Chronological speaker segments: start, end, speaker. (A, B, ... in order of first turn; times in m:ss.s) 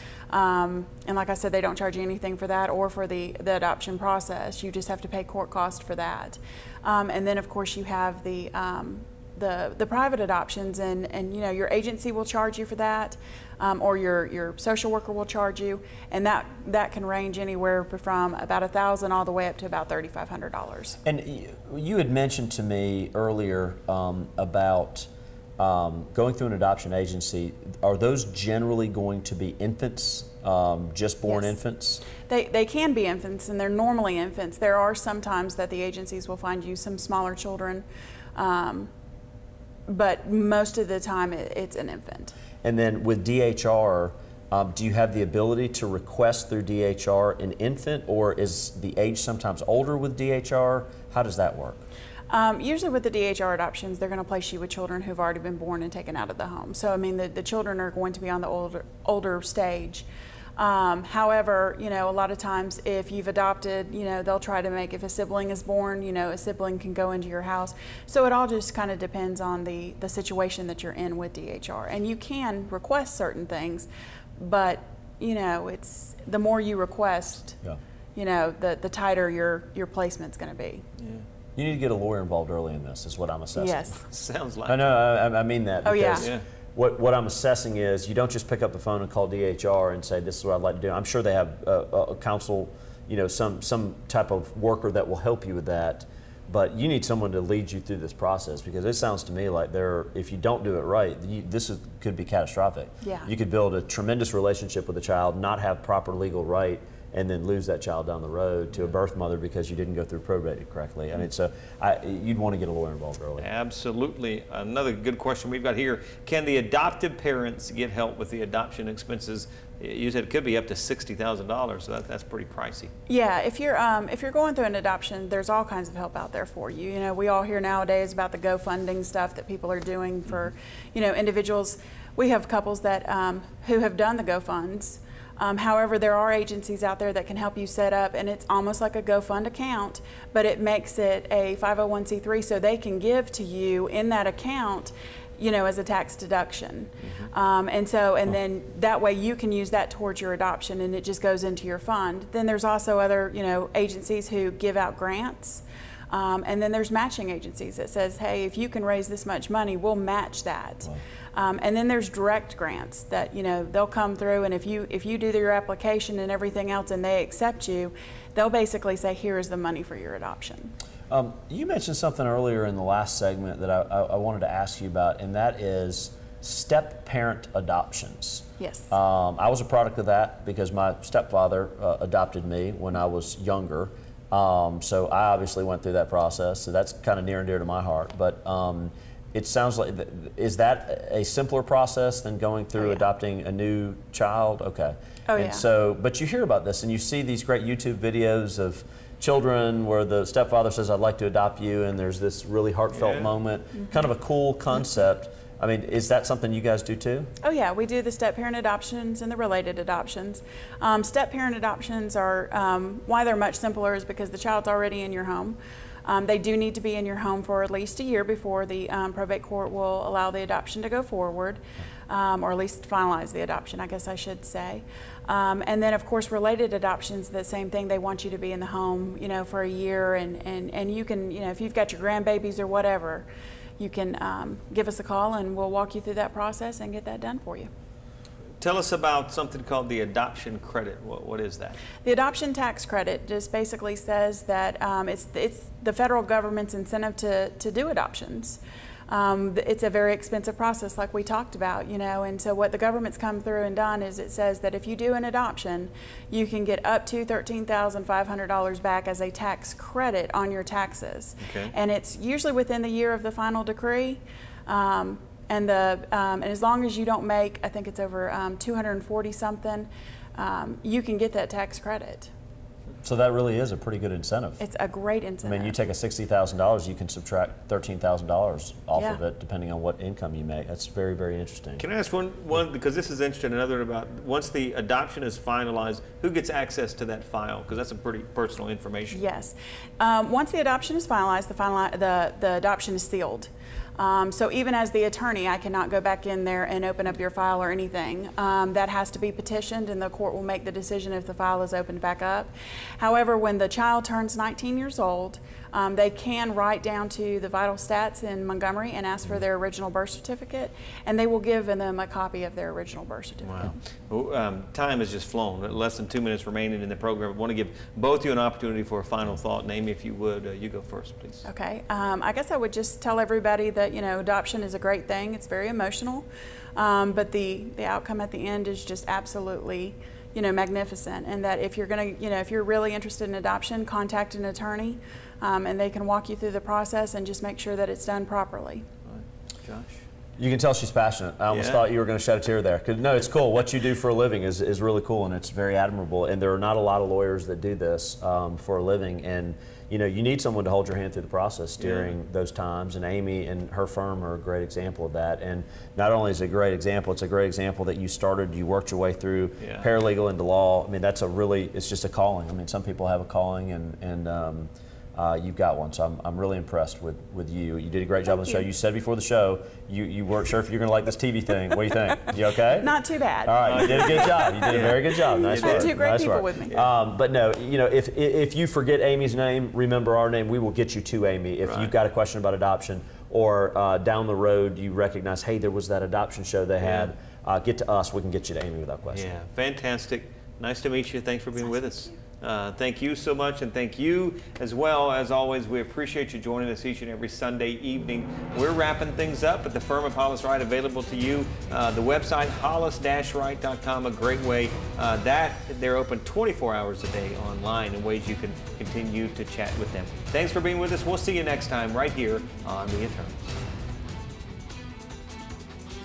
0:00.3-0:21.0 A
0:21.0-0:32.0 B
0:31.3-0:31.5 A
0:32.3-0:37.8 A
0:38.4-0:38.9 A
0:39.9-0:42.4 A
0:42.6-0:51.8 B
0:52.3-1:00.1 A
1:00.6-1:17.6 A
1:18.2-1:20.8 A
1:21.0-1:21.2 C
1:21.6-1:23.9 B
1:23.6-1:24.0 A
1:24.1-1:24.9 C
1:24.7-1:53.5 B
1:25.8-1:26.3 A
1:43.0-1:43.3 A
1:53.4-2:02.9 C
2:03.1-2:50.7 A
2:51.1-3:27.3 B
2:58.6-2:58.9 A
3:15.3-3:15.6 A
3:23.0-3:23.3 C
3:27.4-3:53.3 A
3:53.8-3:57.7 A
3:58.6-4:01.8 C
4:02.0-4:32.3 A
4:21.4-4:21.7 C
4:33.0-4:34.6 B
4:34.6-4:35.7 A
4:35.4-4:41.8 B
4:41.8-4:49.2 C
4:49.1-5:13.7 A
5:13.4-5:21.4 C
5:21.4-5:38.9 A
5:39.1-5:40.0 C
5:40.4-6:12.9 B
5:41.5-5:41.8 C
5:51.8-5:52.1 C
5:59.6-5:59.9 C
6:08.4-6:08.6 A
6:12.7-6:16.7 A
6:13.4-6:29.3 B
6:13.6-6:15.9 C
6:21.6-6:21.9 C
6:26.8-6:27.1 C
6:29.1-6:53.6 C